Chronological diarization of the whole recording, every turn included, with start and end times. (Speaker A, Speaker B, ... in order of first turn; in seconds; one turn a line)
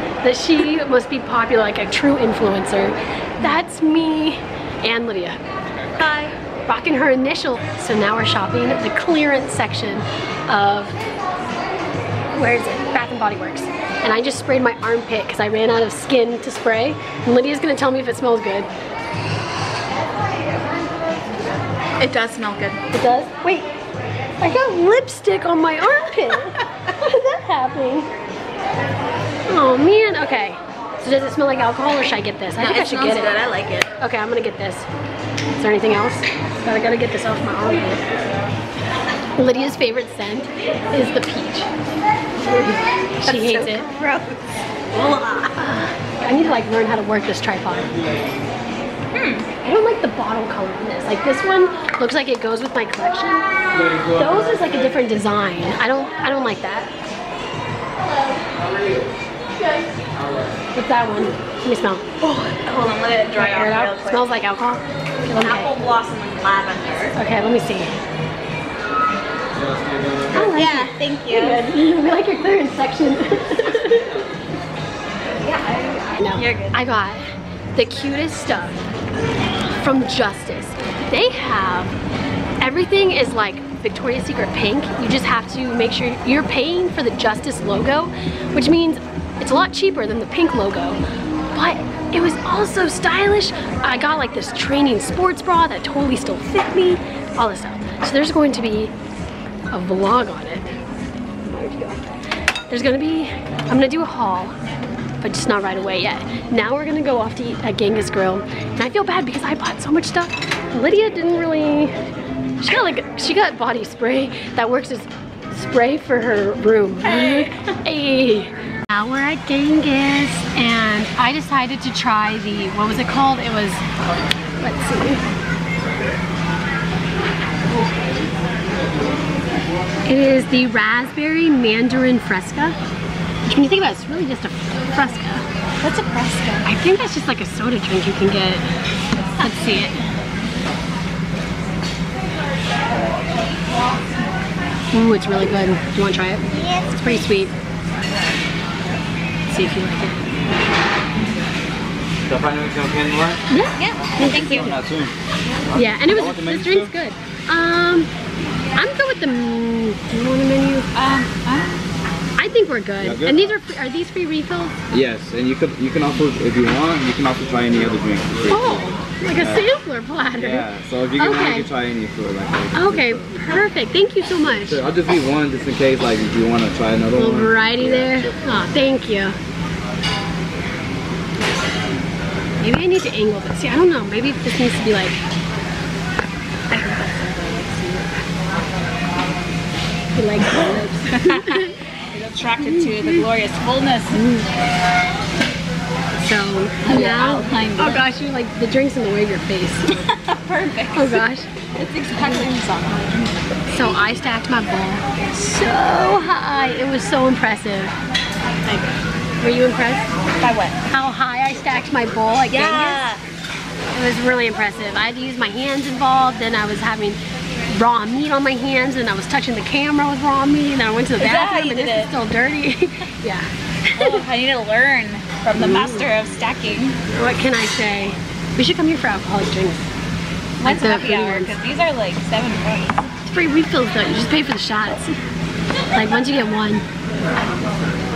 Speaker A: 0.2-5.4
Speaker B: 5.9-6.3
Speaker A: 6.7-10.9
Speaker A: 12.3-18.7
Speaker B: 22.0-22.8
Speaker A: 22.9-23.7
Speaker A: 24.4-28.1
Speaker A: 29.5-33.3
Speaker B: 32.6-33.9
Speaker A: 34.0-34.9
Speaker A: 35.6-38.0
Speaker A: 39.3-41.7
Speaker A: 42.4-43.9
Speaker B: 43.2-44.5
Speaker A: 44.9-48.0
Speaker B: 49.1-49.5
Speaker A: 49.6-53.5
Speaker A: 54.0-56.9
Speaker A: 60.7-62.3
Speaker B: 62.2-64.3
Speaker A: 63.4-65.7
Speaker B: 65.4-67.2
Speaker A: 67.1-68.0
Speaker A: 70.3-74.2
Speaker B: 70.5-71.7
Speaker B: 75.4-76.8
Speaker A: 76.2-77.2
Speaker A: 77.8-78.8
Speaker A: 79.7-81.9
Speaker A: 82.6-91.0
Speaker A: 91.5-98.9
Speaker A: 99.7-100.7
Speaker A: 101.4-102.0
Speaker A: 102.7-104.5
Speaker A: 105.2-112.0
Speaker A: 112.6-123.8
Speaker B: 117.2-117.5
Speaker A: 124.6-125.2
Speaker A: 130.1-132.8
Speaker A: 133.4-135.4
Speaker B: 135.8-136.7
Speaker A: 136.6-138.6
Speaker A: 139.4-140.0
Speaker A: 144.9-147.6
Speaker B: 146.5-147.1
Speaker A: 149.5-150.3
Speaker C: 152.2-153.4
Speaker A: 153.5-154.8
Speaker B: 153.7-154.8
Speaker C: 154.5-155.1
Speaker C: 155.7-156.9
Speaker A: 155.7-158.1
Speaker A: 158.8-160.9
Speaker B: 160.9-161.8
Speaker A: 162.4-164.7
Speaker C: 163.0-163.4
Speaker C: 164.9-169.7
Speaker A: 168.5-170.7
Speaker C: 170.3-173.5
Speaker A: 171.2-171.7
Speaker A: 172.7-174.8
Speaker C: 174.5-178.6
Speaker A: 177.1-179.3
Speaker A: 182.6-185.2
Speaker A: 186.7-188.2
Speaker A: 190.1-191.8
Speaker B: 191.1-194.2
Speaker A: 192.6-193.3
Speaker A: 194.1-194.4
Speaker A: 196.2-200.0
Speaker B: 196.8-198.0
Speaker B: 200.0-201.2
Speaker A: 200.9-201.5
Speaker B: 201.7-203.4
Speaker A: 203.7-207.9
Speaker A: 209.4-210.1
Speaker B: 210.4-210.8
Speaker A: 210.8-213.0
Speaker B: 212.5-213.2
Speaker A: 213.9-224.2
Speaker B: 221.2-222.1
Speaker B: 224.0-227.0
Speaker A: 225.5-226.1
Speaker A: 227.1-229.9
Speaker B: 230.6-233.1
Speaker A: 230.6-231.6
Speaker A: 233.2-235.1
Speaker A: 235.9-236.8